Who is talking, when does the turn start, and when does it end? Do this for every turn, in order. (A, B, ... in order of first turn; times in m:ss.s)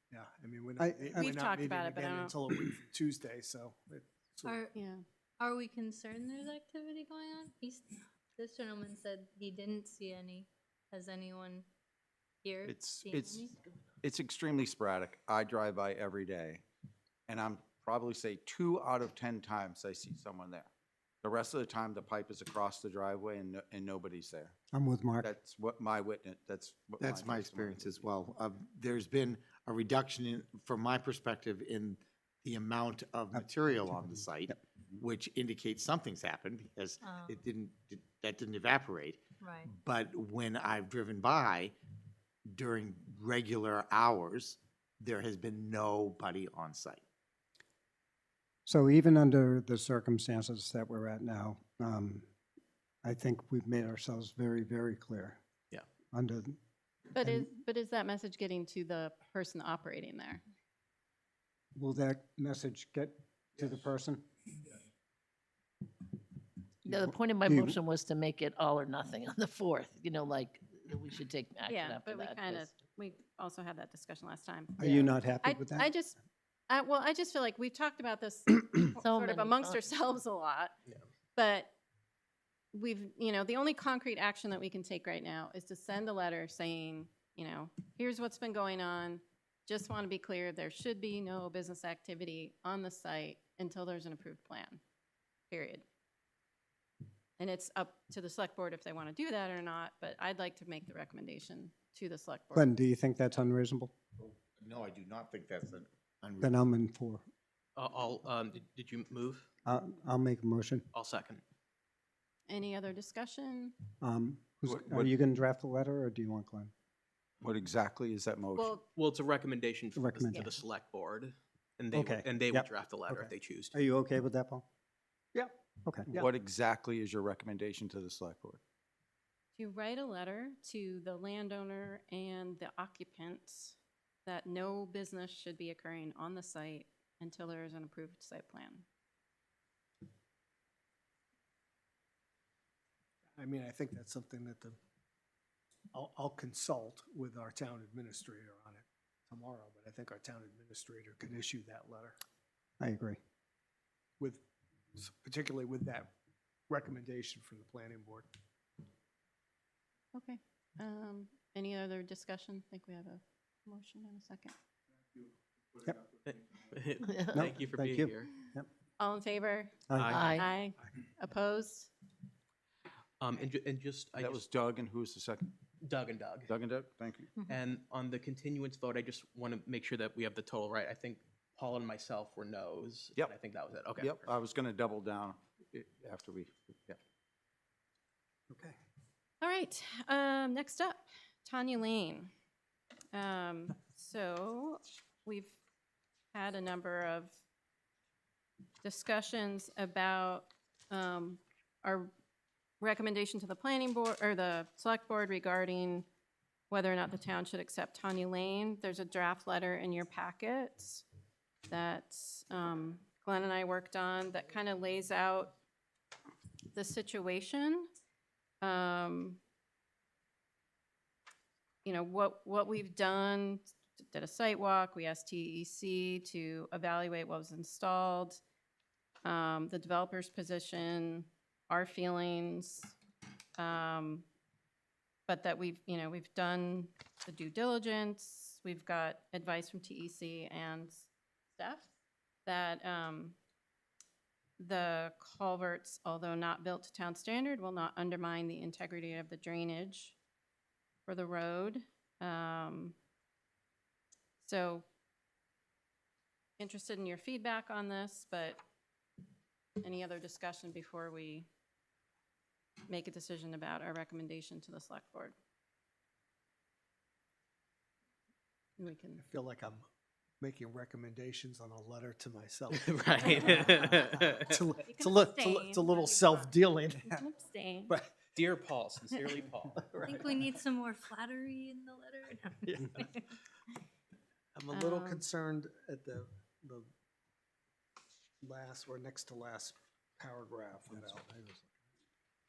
0:00.1-0:04.6 A
0:00.8-0:01.3 B
0:01.2-0:02.4 C
0:04.4-0:04.7 D
0:04.7-0:05.0 C
0:05.4-0:11.7 D
0:12.4-0:13.6 D
0:12.7-0:16.6 E
0:17.3-0:20.7 E
0:21.2-0:24.5 E
0:24.7-0:25.3 B
0:25.2-0:28.1 E
0:27.0-0:41.7 F
0:33.3-0:34.6 B
0:37.0-0:37.4 D
0:39.4-0:39.7 D
0:42.5-0:47.0 F
0:48.7-0:52.2 B
0:53.0-0:55.4 B
0:56.1-0:56.6 B
0:57.1-1:00.4 C
0:57.2-0:57.5 B
1:01.8-1:04.2 B
1:06.8-1:12.7 G
1:07.5-1:07.8 B
1:11.7-1:16.2 C
1:14.8-1:15.9 B
1:16.7-1:20.7 C
1:19.0-1:19.8 G
1:21.4-1:21.7 C
1:22.7-1:34.8 C
1:35.5-1:35.8 C
1:37.4-1:42.7 C
1:42.5-1:43.9 B
1:44.2-1:46.7 F
1:46.4-1:47.2 B
1:47.8-1:49.5 H
1:49.7-1:50.9 B
1:50.9-1:51.4 H
1:52.5-1:53.8 C
1:54.0-1:56.7 B
1:54.6-1:55.1 E
1:57.4-1:58.8 E
1:58.6-1:58.8 C
1:58.9-2:03.8 H
2:00.0-2:00.5 B
2:01.9-2:04.7 B
2:05.8-2:06.2 B
2:06.1-2:08.6 E
2:09.6-2:18.8 C
2:23.4-2:24.8 A
2:25.9-2:32.2 A
2:32.8-2:33.2 B
2:34.9-2:36.1 A
2:36.7-2:38.3 A
2:40.1-2:44.5 C
2:45.9-2:48.3 H
2:47.1-2:47.4 G
2:47.4-2:48.7 B
2:49.0-2:51.9 C
2:49.9-2:50.2 B
2:50.0-2:50.4 H
2:50.1-2:50.5 G
2:53.2-2:54.4 H
2:54.2-2:55.5 E
2:55.8-2:56.5 H
2:56.5-2:57.3 E
2:57.5-3:04.3 H
3:04.0-3:07.0 E
3:08.5-3:08.8 B
3:09.4-3:12.3 C
3:13.1-3:15.6 C
3:16.3-3:17.4 C
3:18.8-3:22.1 C
3:22.8-3:26.0 C
3:26.7-3:31.0 C
3:31.7-3:35.5 C
3:36.7-3:37.9 C
3:38.6-3:39.4 C
3:41.8-3:48.4 C
3:49.2-3:53.0 C
3:53.6-3:54.3 C
3:55.3-4:01.0 C
4:01.6-4:01.9 C
4:02.5-4:03.4 C
4:04.6-4:10.2 C
4:11.1-4:13.0 C
4:14.4-4:14.8 C
4:16.6-4:18.6 C
4:19.8-4:21.5 C
4:22.9-4:25.4 C
4:28.8-4:29.2 C
4:29.2-4:29.9 A
4:30.4-4:37.2 A
4:32.7-4:34.6 H
4:34.8-4:36.4 C
4:37.1-4:38.0 C
4:38.4-4:40.0 H
4:39.9-4:40.6 A
4:40.1-4:43.2 D
4:44.5-4:46.9 A
4:44.7-4:45.2 C
4:48.4-4:51.7 A